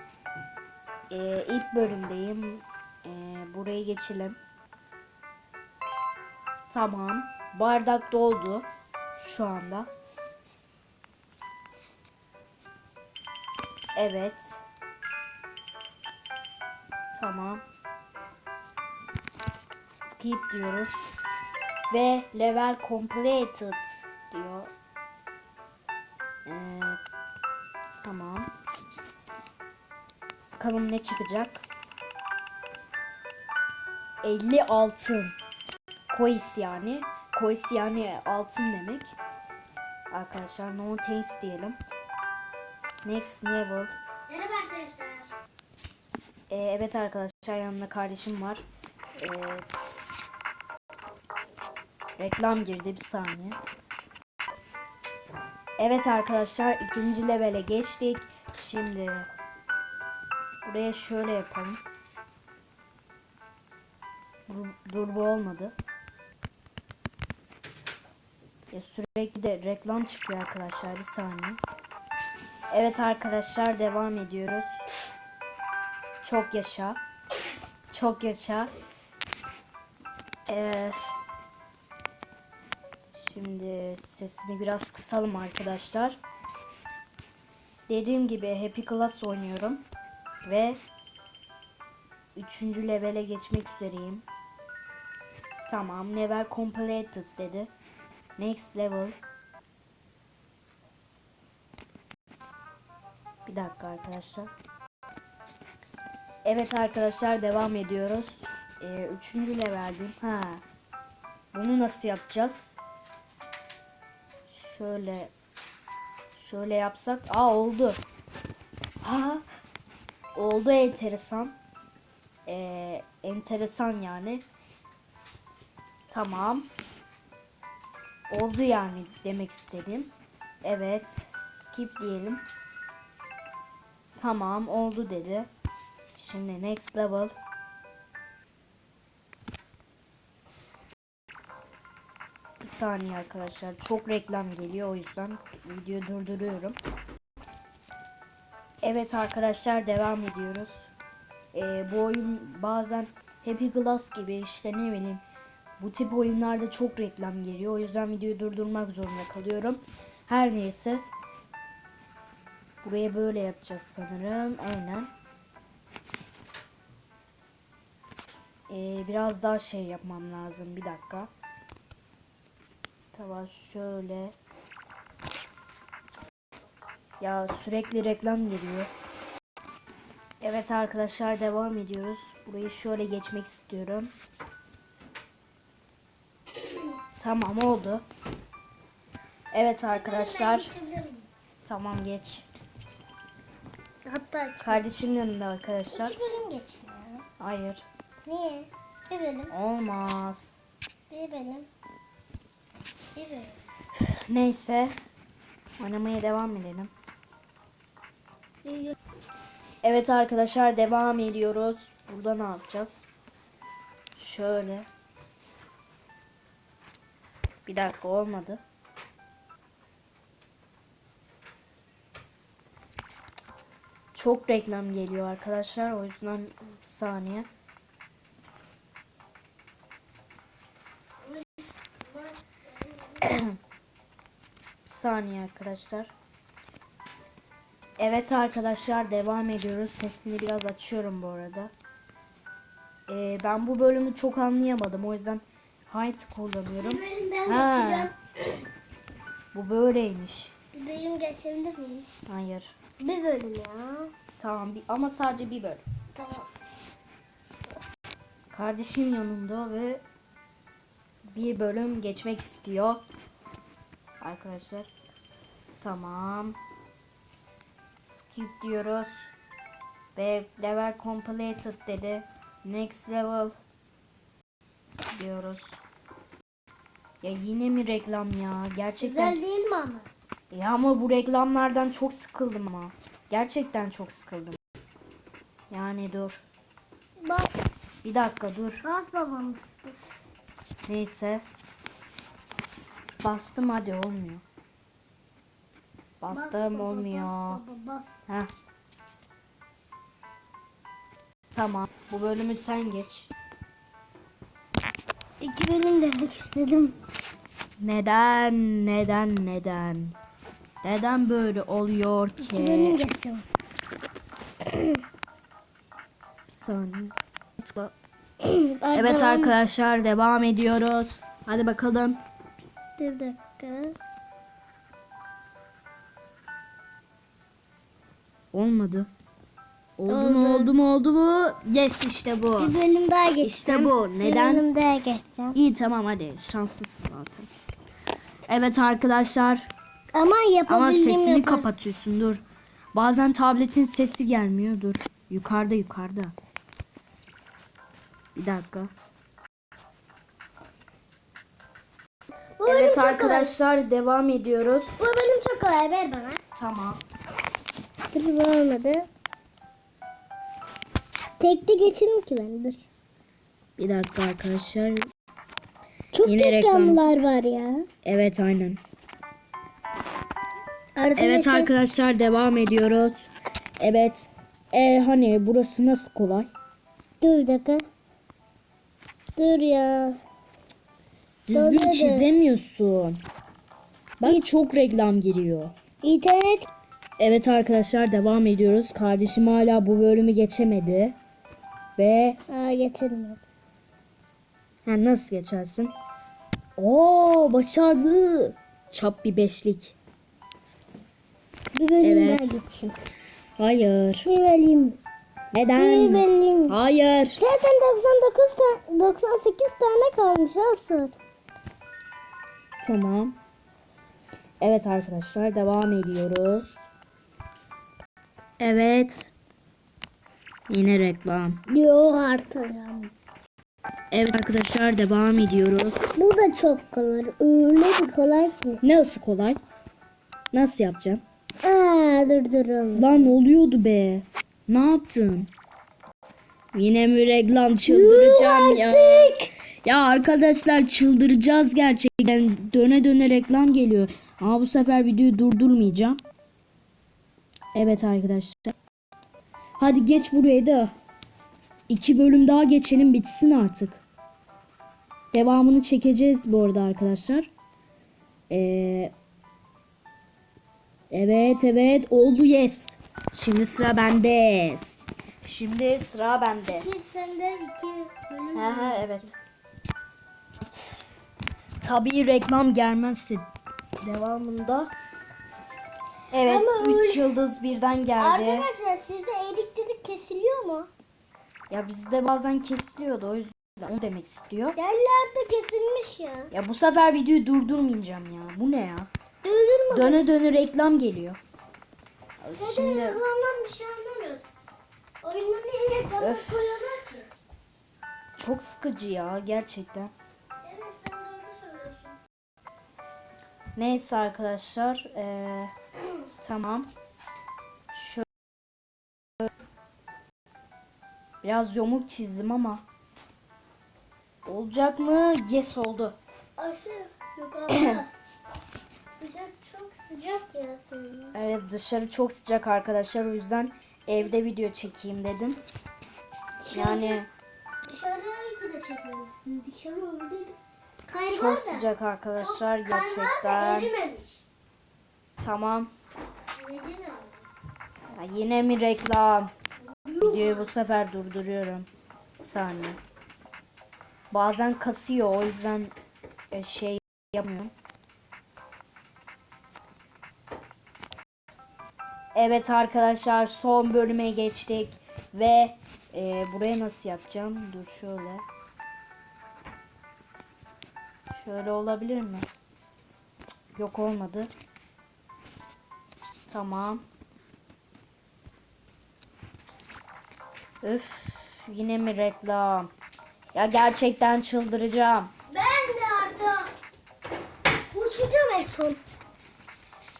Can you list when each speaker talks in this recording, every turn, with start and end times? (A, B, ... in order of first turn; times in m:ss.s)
0:01.1-0:04.4 A
0:06.7-0:08.7 A
0:09.2-0:09.9 A
0:14.0-0:14.6 A
0:17.1-0:17.6 A
0:19.9-0:20.9 A
0:21.9-0:24.7 A
0:26.4-0:27.0 A
0:28.0-0:28.5 A
0:30.6-0:31.6 A
0:34.2-0:35.3 A
0:36.1-0:39.2 A
0:40.1-0:41.8 A
0:43.0-0:43.9 A
0:44.3-0:45.3 B
0:46.5-0:48.6 A
0:49.2-0:49.6 A
0:52.2-0:53.6 A
0:55.8-0:59.3 A
1:00.6-1:01.8 A
1:04.5-1:05.7 A
1:08.7-1:11.6 A
1:12.7-1:14.8 A
1:16.2-1:17.0 A
1:17.9-1:18.7 A
1:20.5-1:21.0 A
1:23.1-1:26.2 A
1:27.9-1:29.8 A
1:30.4-1:30.8 A
1:32.4-1:34.2 A
1:35.7-1:37.7 A
1:38.4-1:39.1 A
1:43.4-1:44.5 A
1:46.4-1:50.6 A
1:51.5-1:52.7 A
1:54.5-1:55.3 A
1:56.3-1:58.0 A
1:59.0-1:59.4 A
2:00.4-2:01.6 A
2:02.4-2:04.4 A
2:06.1-2:06.7 A
2:08.3-2:10.1 A
2:10.6-2:12.4 A
2:14.2-2:15.5 A
2:16.1-2:17.3 A
2:22.6-2:26.8 A
2:28.8-2:30.9 A
2:31.5-2:35.2 A
2:35.8-2:41.0 A
2:42.8-2:45.1 A
2:48.7-2:51.3 A
2:53.1-2:54.3 A
2:57.2-2:58.9 A
3:00.4-3:04.1 A
3:07.2-3:08.0 A
3:09.5-3:10.7 A
3:09.9-3:11.3 B
3:11.6-3:12.5 A
3:14.0-3:14.8 B
3:14.6-3:16.2 A
3:15.9-3:17.2 B
3:17.4-3:17.8 A
3:18.2-3:19.5 B
3:19.5-3:20.6 A
3:21.1-3:21.7 B
3:23.1-3:23.6 B
3:24.3-3:24.9 A
3:25.8-3:26.9 A
3:28.6-3:29.0 B
3:29.8-3:33.1 A
3:34.1-3:34.9 A
3:37.6-3:38.6 A
3:44.1-3:47.5 A
3:51.2-3:53.3 B
3:53.2-3:53.5 A
3:54.8-3:56.1 A
3:58.0-4:01.7 A
4:03.1-4:08.1 A
4:06.8-4:08.1 B
4:09.5-4:10.5 A
4:10.7-4:12.1 B
4:12.3-4:12.7 A
4:13.0-4:14.1 B
4:14.4-4:15.8 A
4:16.1-4:16.5 B
4:18.5-4:20.0 A
4:21.3-4:23.0 A
4:24.2-4:24.9 A
4:25.8-4:26.6 A
4:28.0-4:29.3 A
4:30.1-4:33.5 A
4:35.1-4:35.8 A
4:37.2-4:39.4 A
4:39.0-4:40.1 B
4:40.5-4:44.6 A
4:45.7-4:46.5 A
4:47.2-4:47.6 B
4:48.0-4:48.8 A
4:48.8-4:50.3 B
4:50.9-4:51.4 A
4:53.2-4:54.4 A
4:56.2-4:57.6 A
4:56.3-4:58.1 B
5:01.5-5:03.3 A
5:05.4-5:07.0 B
5:07.8-5:10.2 A
5:10.8-5:13.0 A
5:12.4-5:13.5 B
5:14.6-5:15.0 B
5:16.5-5:17.9 A
5:18.4-5:19.6 B
5:18.9-5:22.2 A
5:23.0-5:24.0 B
5:28.5-5:29.1 A
5:30.0-5:32.7 A
5:30.1-5:30.7 B
5:32.6-5:35.6 B
5:33.4-5:34.6 A
5:35.5-5:37.5 A
5:38.5-5:39.7 A
5:40.1-5:41.6 B
5:40.7-5:42.4 A
5:42.9-5:46.3 A
5:48.4-5:48.9 A
5:52.6-5:53.5 B
5:52.6-5:55.0 A
5:55.0-5:56.4 B
5:56.6-5:57.0 A
5:58.1-5:59.1 B
6:01.4-6:02.8 B
6:03.8-6:05.1 A
6:06.1-6:07.9 B
6:06.2-6:07.0 A
6:08.0-6:08.8 A
6:11.0-6:11.7 B
6:11.2-6:16.5 A
6:17.2-6:17.8 B
6:19.4-6:20.2 B
6:21.5-6:23.2 A
6:21.5-6:22.3 B
6:24.2-6:25.7 A
6:26.0-6:26.7 B
6:27.2-6:31.2 A
6:32.0-6:32.4 A
6:32.5-6:33.4 B
6:34.8-6:35.9 A
6:36.8-6:40.0 A
6:41.7-6:43.0 B
6:42.0-6:42.6 A
6:43.6-6:44.3 A
6:44.2-6:45.0 B
6:45.5-6:47.4 A
6:45.8-6:46.8 B
6:47.3-6:51.1 B
6:52.8-6:53.4 A
6:54.6-6:56.8 A
6:58.6-6:59.3 A
7:00.7-7:01.6 A
7:01.7-7:03.1 B
7:04.1-7:06.0 A
7:06.2-7:08.8 B
7:08.8-7:09.6 A
7:10.5-7:11.2 A
7:11.6-7:13.4 B
7:12.9-7:15.5 A
7:16.7-7:26.2 A
7:17.8-7:19.4 B
7:27.7-7:28.8 A
7:29.8-7:30.9 A
7:31.9-7:34.0 A
7:35.3-7:37.5 A
7:38.5-7:39.1 A
7:41.1-7:46.9 A
7:46.7-7:49.3 B
7:48.5-7:49.4 A
7:51.8-7:53.4 A
7:54.0-7:54.9 A
7:56.3-7:58.7 A
7:56.4-7:57.3 B
7:58.2-8:00.9 B
8:01.7-8:04.8 A
8:04.7-8:06.5 B
8:06.5-8:09.1 A
8:09.4-8:10.2 B
8:09.9-8:11.4 A
8:12.4-8:13.2 A
8:12.6-8:14.5 B
8:15.2-8:17.3 B
8:16.2-8:16.8 A
8:18.4-8:20.1 A
8:20.6-8:22.2 B
8:23.8-8:25.7 A
8:26.4-8:26.9 A
8:27.9-8:28.2 A
8:31.4-8:32.8 A
8:34.4-8:36.2 A
8:36.6-8:38.1 B
8:39.2-8:41.4 B
8:41.3-8:45.6 A
8:46.6-8:47.2 B
8:46.7-8:47.3 A
8:47.9-8:50.5 B
8:51.1-8:51.8 B
8:51.3-8:53.9 A
8:52.4-8:54.4 B
8:55.4-8:55.9 A
8:56.6-8:57.4 B
8:58.1-8:59.5 A
8:59.9-9:00.7 B
9:00.2-9:03.0 A
9:04.3-9:05.9 A
9:06.5-9:07.7 A
9:12.3-9:18.4 A
9:21.3-9:22.5 A
9:23.7-9:24.5 A
9:26.5-9:27.0 A
9:30.8-9:32.9 A
9:33.5-9:35.3 A
9:35.5-9:36.7 B
9:37.9-9:39.0 B